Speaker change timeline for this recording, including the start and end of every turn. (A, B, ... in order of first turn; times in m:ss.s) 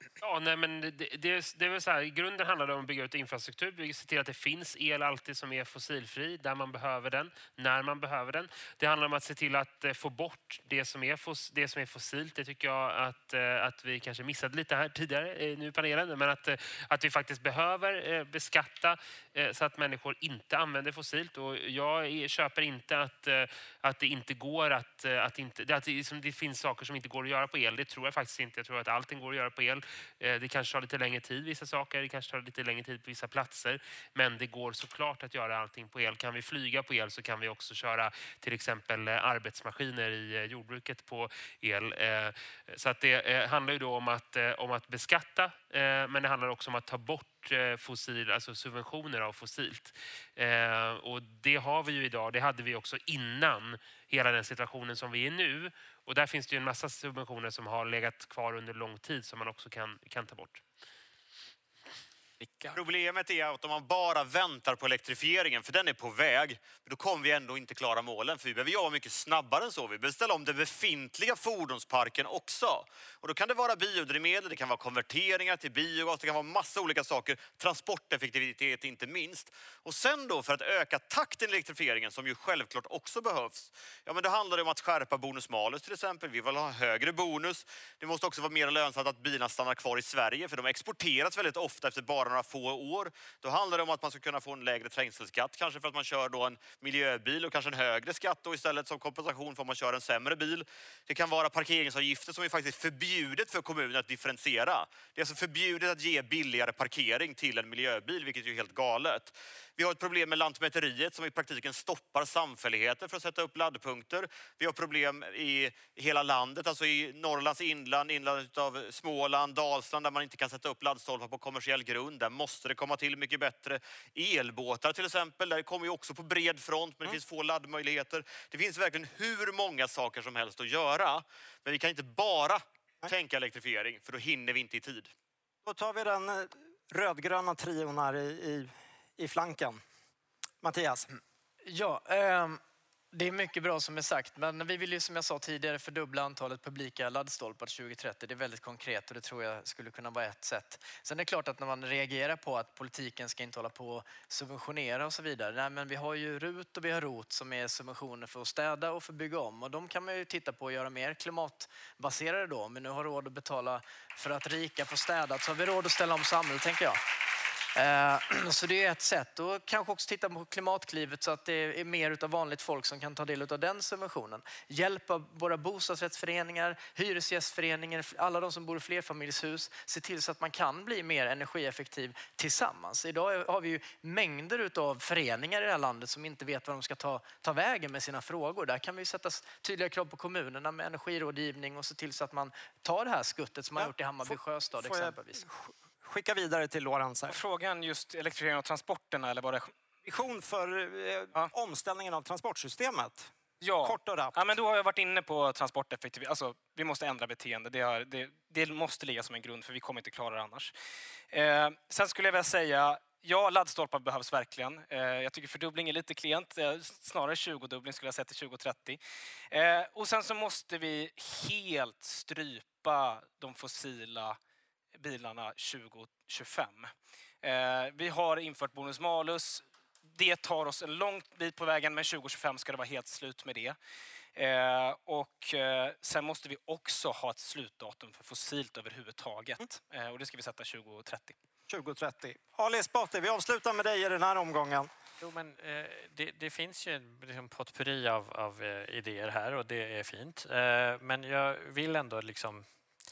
0:00.2-1:00.6 A
1:02.7-2:15.1 B
2:15.6-2:19.8 C
2:20.6-2:21.1 C
2:21.6-2:22.6 D
2:23.1-3:15.4 D
3:13.8-3:17.4 C
3:17.3-3:19.7 E
3:20.0-3:24.4 C
3:23.6-3:30.7 E
3:31.3-3:44.4 E
3:44.9-3:53.8 E
3:54.3-4:01.3 E
4:01.7-4:04.9 C
4:05.2-4:12.6 F